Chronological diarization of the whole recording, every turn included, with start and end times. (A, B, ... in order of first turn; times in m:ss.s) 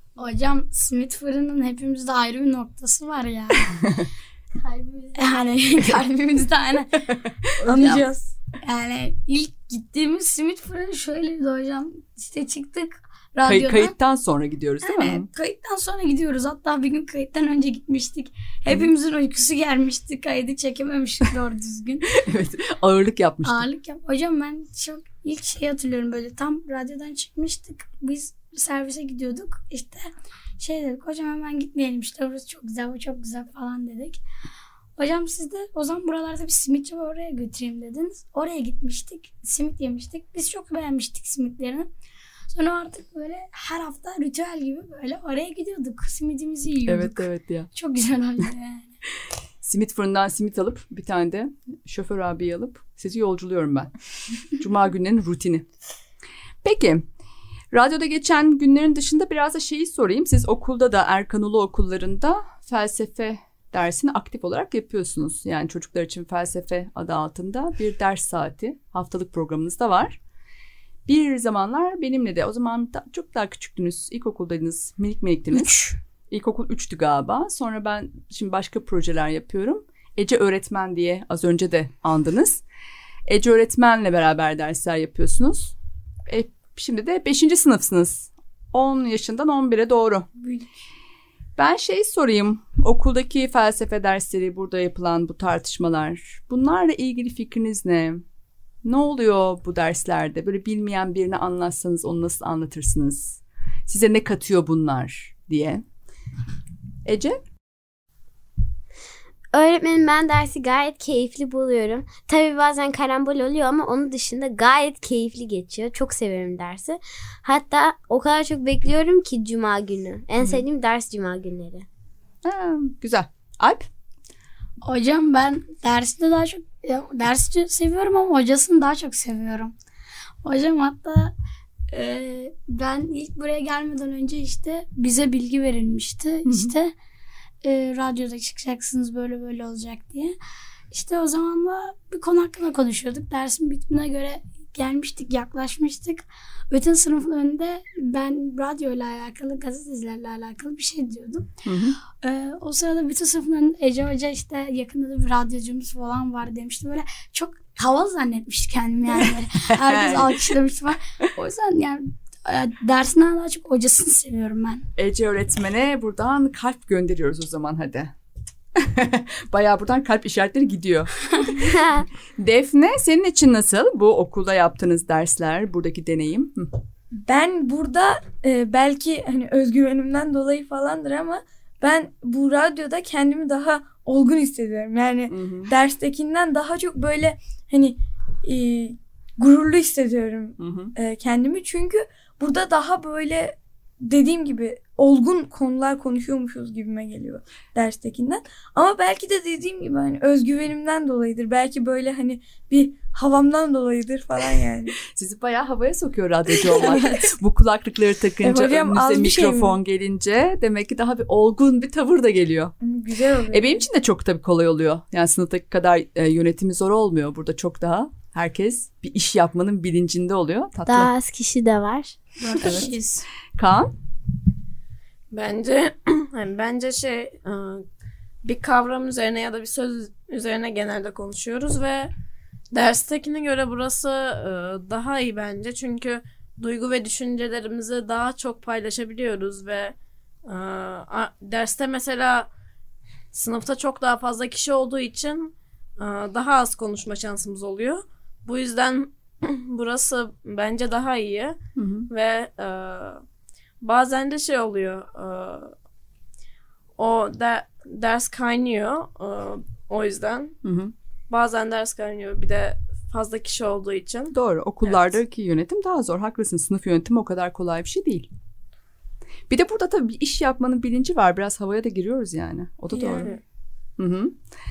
0:00.2-0:03.8 A
0:03.8-0:04.0 B
0:04.6-0:05.3 C
0:05.2-0:07.0 A
0:07.6-0:08.1 A
0:07.6-0:08.1 D
0:08.6-0:13.9 A
0:13.4-0:15.3 B
0:14.8-0:22.2 A
0:22.1-0:23.7 B
0:23.4-0:34.2 A
0:35.0-0:41.9 A
0:42.5-0:48.9 A
0:46.9-0:47.7 B
0:49.6-0:53.9 B
0:54.4-0:55.6 B
0:56.6-0:57.0 B
0:57.7-1:10.2 B
1:11.0-1:22.6 B
1:15.5-1:16.0 A
1:23.3-1:25.7 B
1:26.3-1:30.3 B
1:31.6-1:38.2 B
1:38.8-1:45.8 B
1:47.0-1:47.4 B
1:49.5-2:01.8 C
2:02.4-2:03.9 B
2:04.8-2:09.7 A
2:10.4-2:11.3 A
2:11.9-2:16.9 A
2:16.4-2:16.7 B
2:17.6-2:20.4 A
2:20.9-2:31.5 A
2:31.6-2:32.0 B
2:32.1-2:44.9 A
2:39.8-2:40.3 B
2:45.0-2:48.1 B
2:48.8-2:51.8 B
2:51.6-2:52.0 C
2:52.4-2:56.7 B
2:57.1-3:24.9 E
3:05.3-3:05.7 B
3:10.6-3:10.9 B
3:25.1-3:32.8 B
3:26.6-3:27.3 E
3:28.4-3:29.8 E
3:32.8-3:33.8 E
3:33.5-3:41.1 B
3:40.9-3:42.2 C
3:42.4-3:43.2 A
3:42.6-3:42.9 B
3:43.6-3:43.9 B
3:45.3-3:47.8 D
3:48.4-3:52.1 D
3:52.7-4:02.5 D
4:03.3-4:11.6 D
4:11.8-4:12.1 B
4:12.1-4:13.2 D
4:13.8-4:15.7 D
4:17.0-4:20.5 D
4:20.6-4:20.9 B
4:21.3-4:25.2 D
4:24.3-4:28.3 B
4:29.5-4:33.3 B
4:32.9-4:33.3 E
4:34.0-4:34.4 B